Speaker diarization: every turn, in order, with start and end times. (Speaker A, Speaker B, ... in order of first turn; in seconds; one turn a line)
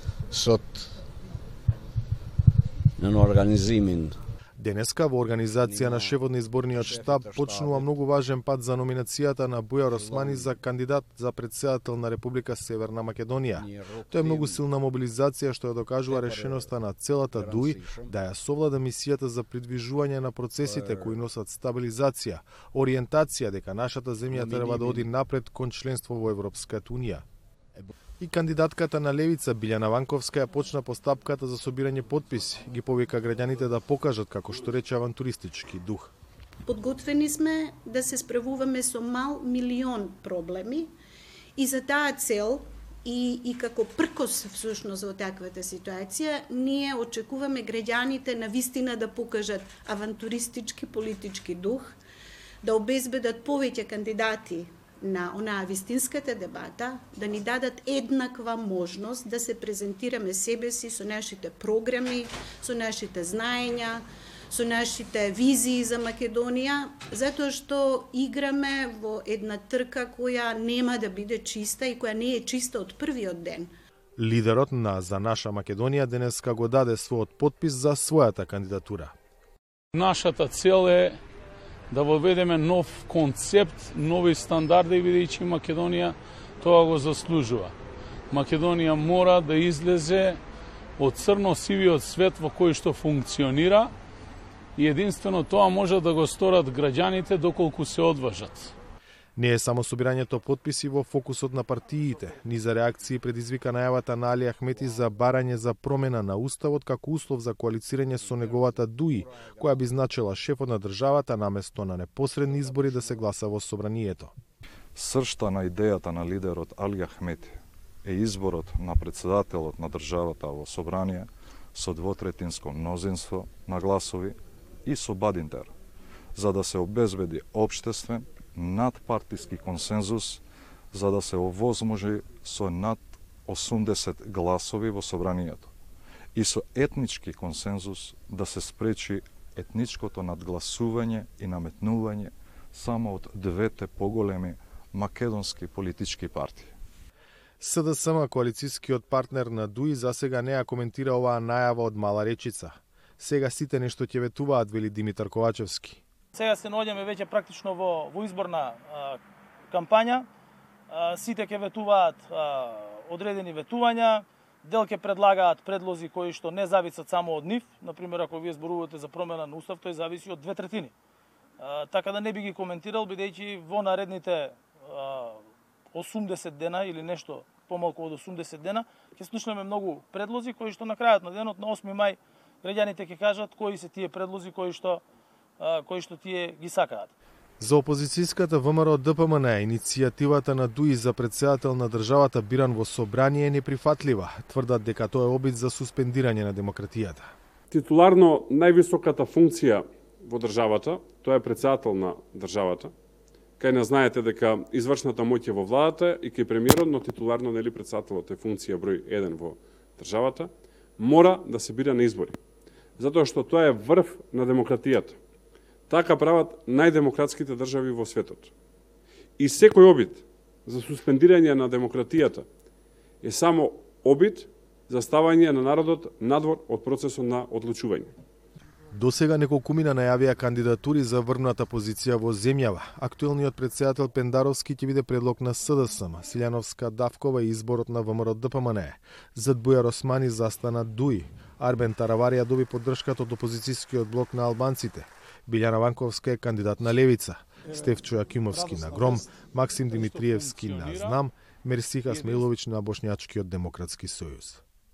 Speaker A: 0.3-0.9
Speaker A: 3.0-4.1
Speaker B: 4.6-27.2
Speaker A: 5.6-6.2
Speaker A: 6.7-7.9
Speaker A: 9.9-10.5
Speaker A: 13.6-14.6
Speaker A: 16.1-16.7
Speaker A: 17.3-18.1
Speaker A: 20.6-21.2
Speaker A: 24.3-25.1
Speaker B: 28.2-36.1
Speaker C: 36.6-40.9
Speaker C: 41.5-52.0
Speaker C: 52.6-73.7
Speaker B: 74.2-79.1
Speaker D: 79.9-81.2
Speaker D: 81.9-87.7
Speaker D: 88.3-90.4
Speaker D: 91.0-93.9
Speaker D: 94.8-98.7
Speaker B: 99.4-114.3
Speaker A: 108.2-109.9
Speaker A: 112.4-113.2
Speaker E: 114.9-125.7
Speaker E: 126.3-135.7
Speaker E: 136.3-146.7
Speaker B: 147.6-156.0
Speaker F: 156.3-159.2
Speaker F: 159.7-160.2
Speaker F: 160.9-170.9
Speaker F: 171.6-185.0
Speaker F: 185.6-187.1
Speaker B: 187.6-197.3
Speaker G: 197.7-202.9
Speaker G: 203.6-212.4
Speaker G: 213.0-215.2
Speaker G: 215.9-218.5
Speaker G: 219.4-222.4
Speaker G: 223.2-228.1
Speaker B: 228.9-254.6
Speaker D: 249.9-251.2
Speaker D: 252.1-252.4